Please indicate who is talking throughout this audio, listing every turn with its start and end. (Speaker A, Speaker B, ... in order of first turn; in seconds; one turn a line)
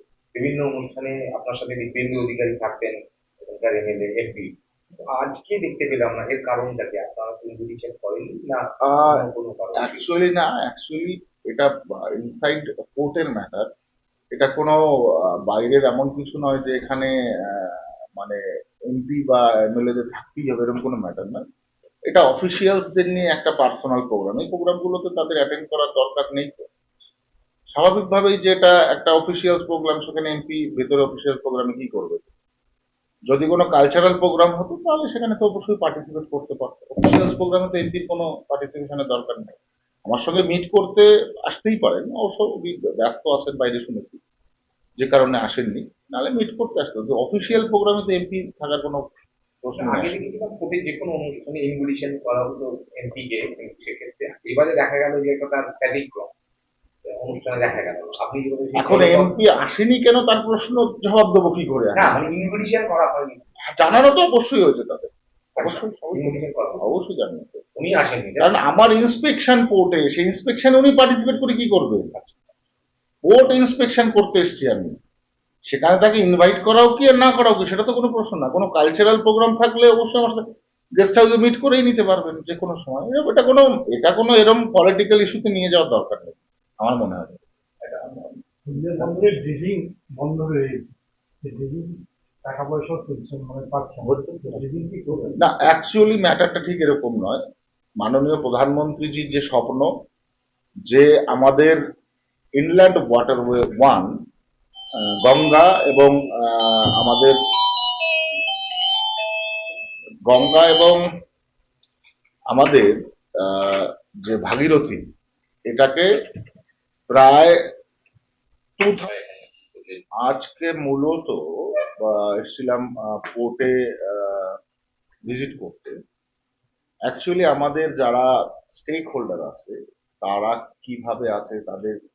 Speaker A: 0.3-4.5
Speaker A: 5.1-10.0
Speaker B: 8.8-9.2
Speaker B: 9.8-13.7
Speaker B: 14.3-14.8
Speaker B: 15.3-21.4
Speaker B: 22.1-26.7
Speaker B: 27.7-32.3
Speaker B: 33.3-44.2
Speaker B: 45.0-49.1
Speaker B: 49.6-50.1
Speaker A: 49.8-56.3
Speaker A: 57.1-59.4
Speaker B: 58.8-62.2
Speaker A: 62.0-64.0
Speaker B: 63.7-67.6
Speaker A: 65.6-66.9
Speaker A: 67.8-68.5
Speaker B: 68.4-72.4
Speaker B: 73.2-75.0
Speaker B: 75.7-80.4
Speaker B: 81.0-88.3
Speaker C: 88.7-95.3
Speaker B: 94.0-94.6
Speaker B: 95.4-97.4
Speaker B: 98.0-99.9
Speaker B: 100.8-101.8
Speaker B: 102.6-104.2
Speaker B: 105.2-107.4
Speaker B: 110.2-111.0
Speaker B: 112.5-115.0
Speaker B: 115.7-116.1
Speaker B: 117.1-117.6
Speaker B: 118.8-119.1
Speaker A: 119.1-120.0
Speaker B: 120.2-124.6
Speaker B: 125.2-125.9
Speaker B: 127.1-132.0